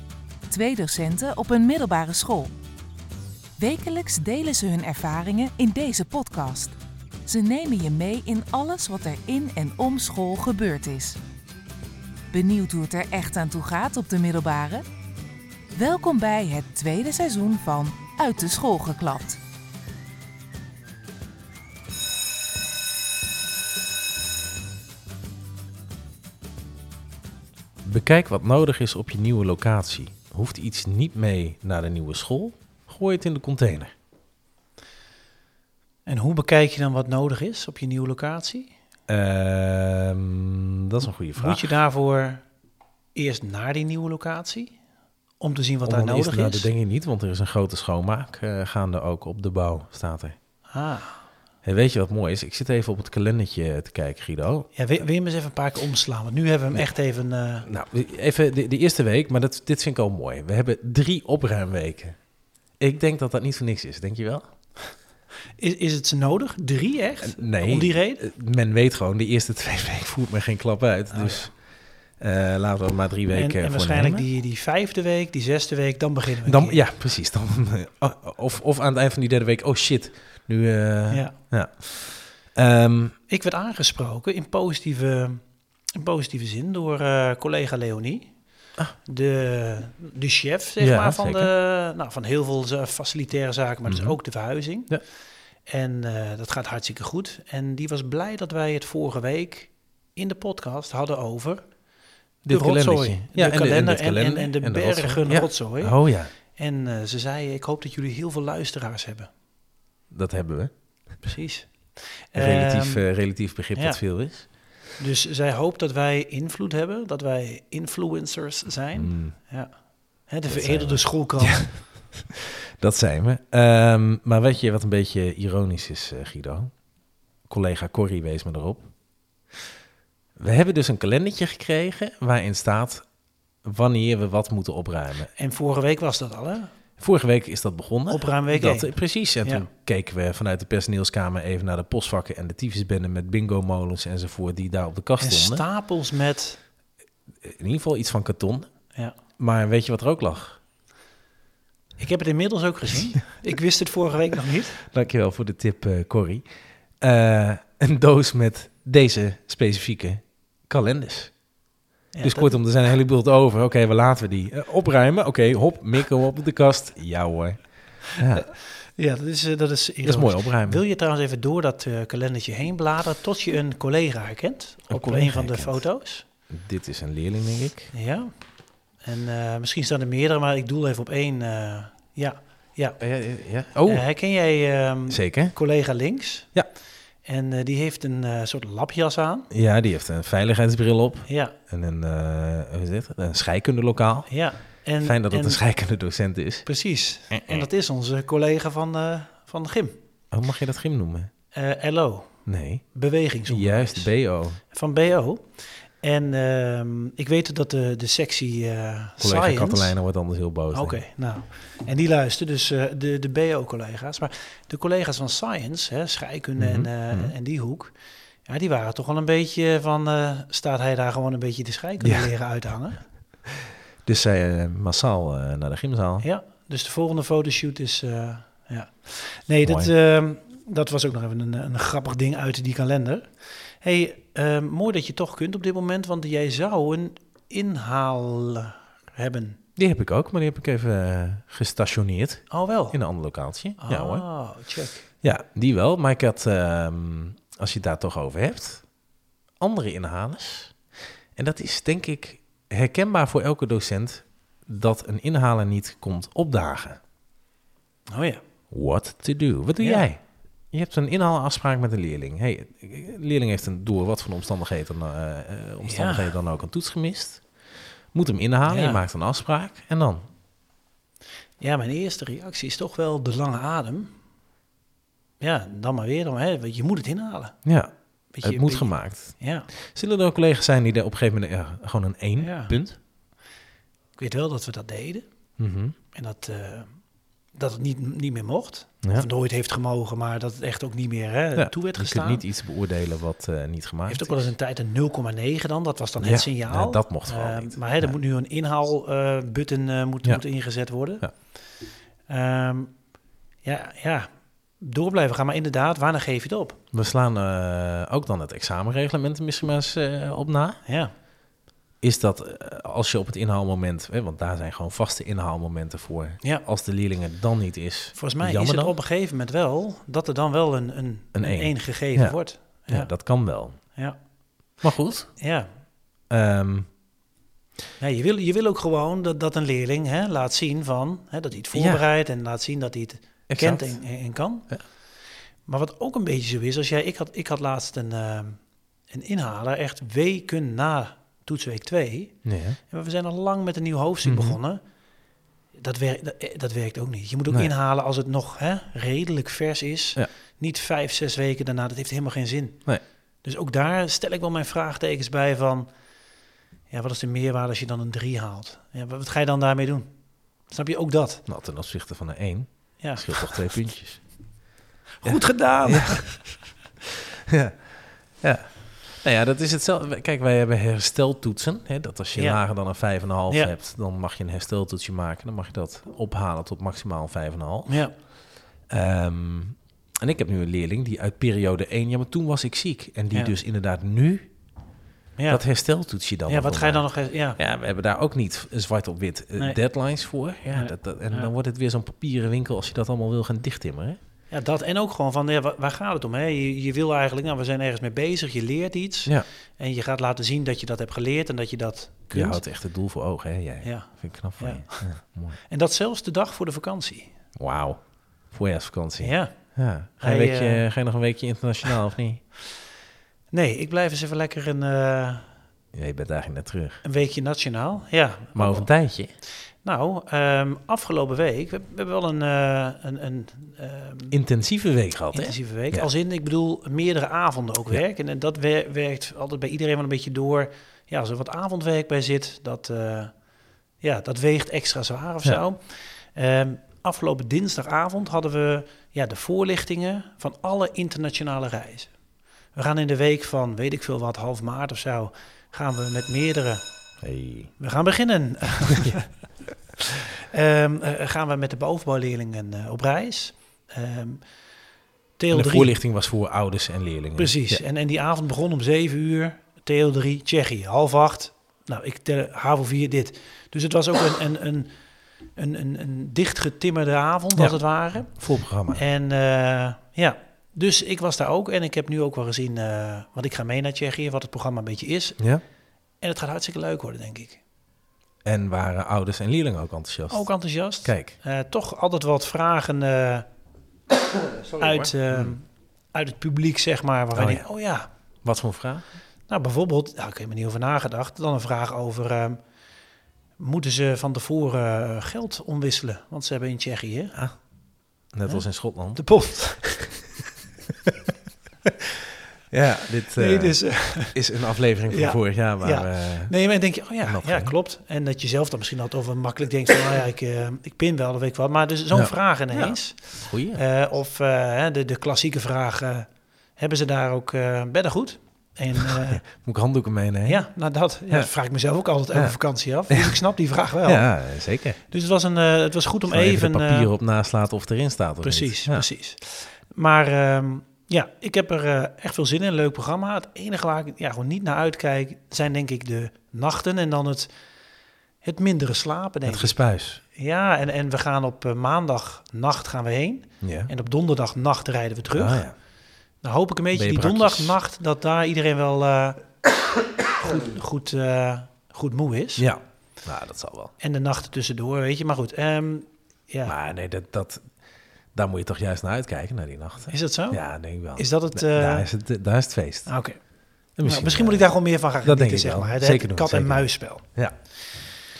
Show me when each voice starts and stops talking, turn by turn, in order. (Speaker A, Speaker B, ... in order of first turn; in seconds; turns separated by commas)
Speaker A: 0.5-2.5, Speaker A: 3.6-6.8, Speaker A: 7.3-11.2, Speaker A: 12.3-14.8, Speaker A: 15.8-19.4, Speaker B: 27.8-33.9, Speaker C: 36.1-38.7, Speaker B: 39.1-41.8, Speaker C: 41.4-42.5, Speaker C: 43.1-44.8, Speaker C: 45.4-46.7, Speaker B: 45.8-50.4, Speaker C: 50.7-51.2, Speaker B: 51.6-54.7, Speaker C: 54.7-57.7, Speaker B: 57.6-62.2, Speaker B: 62.8-64.4, Speaker C: 65.6-68.3, Speaker B: 67.2-71.5, Speaker C: 71.1-71.4, Speaker B: 72.2-74.3, Speaker C: 73.3-76.8, Speaker B: 76.4-83.1, Speaker C: 81.1-81.4, Speaker C: 83.3-85.4, Speaker C: 85.9-88.3, Speaker C: 89.0-95.0, Speaker B: 90.8-91.5, Speaker B: 93.9-94.2, Speaker C: 95.7-101.7, Speaker B: 102.4-106.3, Speaker C: 102.5-109.3, Speaker B: 110.1-110.7, Speaker C: 111.2-113.1, Speaker B: 112.3-114.5, Speaker C: 113.7-114.0, Speaker C: 115.0-121.7, Speaker B: 119.0-119.4, Speaker B: 120.5-126.7, Speaker B: 127.5-128.9, Speaker B: 130.4-133.1, Speaker B: 133.6-135.3, Speaker C: 135.3-136.7, Speaker B: 137.0-145.7, Speaker C: 138.1-139.7, Speaker C: 145.2-146.6, Speaker B: 147.4-148.7, Speaker B: 149.4-150.6, Speaker C: 152.0-154.8, Speaker B: 154.8-156.4, Speaker B: 157.0-161.3, Speaker C: 162.1-162.6, Speaker B: 162.2-168.5, Speaker C: 168.9-176.3, Speaker B: 170.0-170.8, Speaker B: 174.9-175.8, Speaker B: 176.5-177.9, Speaker C: 177.9-178.3, Speaker C: 179.0-183.0, Speaker B: 183.0-184.0, Speaker C: 183.9-186.6, Speaker B: 185.1-185.6, Speaker C: 187.2-189.5, Speaker B: 189.5-194.3, Speaker C: 191.3-191.6, Speaker C: 194.3-195.6, Speaker B: 195.0-196.7, Speaker C: 196.7-200.0, Speaker B: 197.3-197.7, Speaker B: 200.3-201.3, Speaker C: 201.5-210.0, Speaker B: 202.5-202.8, Speaker B: 203.5-204.6, Speaker B: 209.2-211.0, Speaker C: 210.7-223.0, Speaker B: 216.6-217.3, Speaker B: 222.0-222.3, Speaker B: 224.1-226.3, Speaker C: 226.2-239.6, Speaker B: 229.6-229.9, Speaker B: 239.8-244.2, Speaker C: 242.5-243.0, Speaker C: 243.8-245.1, Speaker B: 245.2-248.9, Speaker B: 249.6-250.7, Speaker B: 251.4-257.0, Speaker C: 258.1-258.4, Speaker B: 258.7-260.2, Speaker C: 259.8-260.1, Speaker B: 260.7-267.4, Speaker C: 265.8-266.3, Speaker B: 268.1-270.2, Speaker C: 268.7-269.0, Speaker C: 271.6-274.2, Speaker C: 275.4-277.6, Speaker B: 277.6-277.9, Speaker C: 278.3-279.7, Speaker B: 278.4-283.0, Speaker C: 282.4-282.8, Speaker C: 284.2-285.2, Speaker B: 285.6-285.9, Speaker C: 286.1-286.9, Speaker C: 287.5-292.5, Speaker B: 291.6-294.5, Speaker C: 294.1-301.4, Speaker B: 296.2-298.1, Speaker C: 302.3-303.0, Speaker C: 303.6-304.3, Speaker C: 304.8-306.8, Speaker B: 306.9-310.8, Speaker C: 310.9-311.1, Speaker B: 312.0-318.9, Speaker C: 318.1-323.4, Speaker B: 321.4-323.8, Speaker C: 323.9-324.2, Speaker B: 324.8-325.3, Speaker C: 325.4-325.7, Speaker B: 326.3-326.9, Speaker C: 328.0-334.7, Speaker B: 331.7-332.0, Speaker B: 333.5-334.0, Speaker C: 335.6-344.8, Speaker B: 342.4-342.8, Speaker B: 344.2-344.6, Speaker C: 345.8-352.9, Speaker C: 353.4-355.9, Speaker C: 356.9-360.1, Speaker C: 360.7-361.5, Speaker B: 361.5-364.2, Speaker C: 363.0-363.6, Speaker C: 365.2-366.4, Speaker B: 365.2-366.3, Speaker B: 367.5-367.9, Speaker B: 368.4-378.0, Speaker C: 372.3-372.7, Speaker C: 373.5-373.7, Speaker C: 377.9-378.1, Speaker B: 378.9-384.4, Speaker C: 385.4-385.7, Speaker B: 385.5-394.2, Speaker C: 386.5-387.6, Speaker C: 390.7-391.5, Speaker C: 394.5-402.6, Speaker B: 402.3-405.6, Speaker C: 403.8-407.3, Speaker B: 407.6-412.4, Speaker C: 409.2-409.6, Speaker C: 410.2-410.9, Speaker C: 413.5-415.5, Speaker B: 415.9-417.0, Speaker C: 417.0-418.9, Speaker B: 418.6-419.3, Speaker C: 419.8-424.4, Speaker B: 424.3-426.1, Speaker C: 425.3-433.4, Speaker C: 434.0-442.1, Speaker C: 442.7-446.8, Speaker B: 447.2-447.7, Speaker C: 447.8-449.3, Speaker C: 450.0-454.4, Speaker C: 455.4-455.9, Speaker B: 455.5-457.8, Speaker C: 457.4-464.9, Speaker C: 465.6-475.4, Speaker B: 467.6-469.0, Speaker C: 476.2-477.6, Speaker B: 478.4-481.4, Speaker C: 480.3-483.5, Speaker B: 484.6-485.6, Speaker C: 484.8-488.1, Speaker B: 487.4-487.7, Speaker B: 488.4-489.1, Speaker C: 489.5-492.6, Speaker C: 493.6-497.4, Speaker B: 498.3-499.6, Speaker C: 498.5-500.3, Speaker B: 502.7-506.6, Speaker C: 503.3-504.4, Speaker C: 505.1-519.5, Speaker B: 507.2-507.8, Speaker B: 512.1-513.8, Speaker B: 519.0-520.7, Speaker C: 520.4-524.3, Speaker B: 523.1-523.4, Speaker B: 524.0-525.0, Speaker C: 525.0-527.1, Speaker B: 526.3-529.1, Speaker C: 528.4-537.5, Speaker C: 538.4-545.7, Speaker B: 539.5-540.2, Speaker B: 543.6-543.9, Speaker B: 545.3-545.8, Speaker C: 546.4-549.6, Speaker B: 546.9-547.8, Speaker C: 550.3-552.7, Speaker B: 552.6-553.9, Speaker C: 554.0-556.8, Speaker B: 556.6-557.7, Speaker B: 558.3-563.1, Speaker C: 560.1-562.1, Speaker C: 563.1-563.4, Speaker B: 564.0-567.5, Speaker C: 564.0-567.3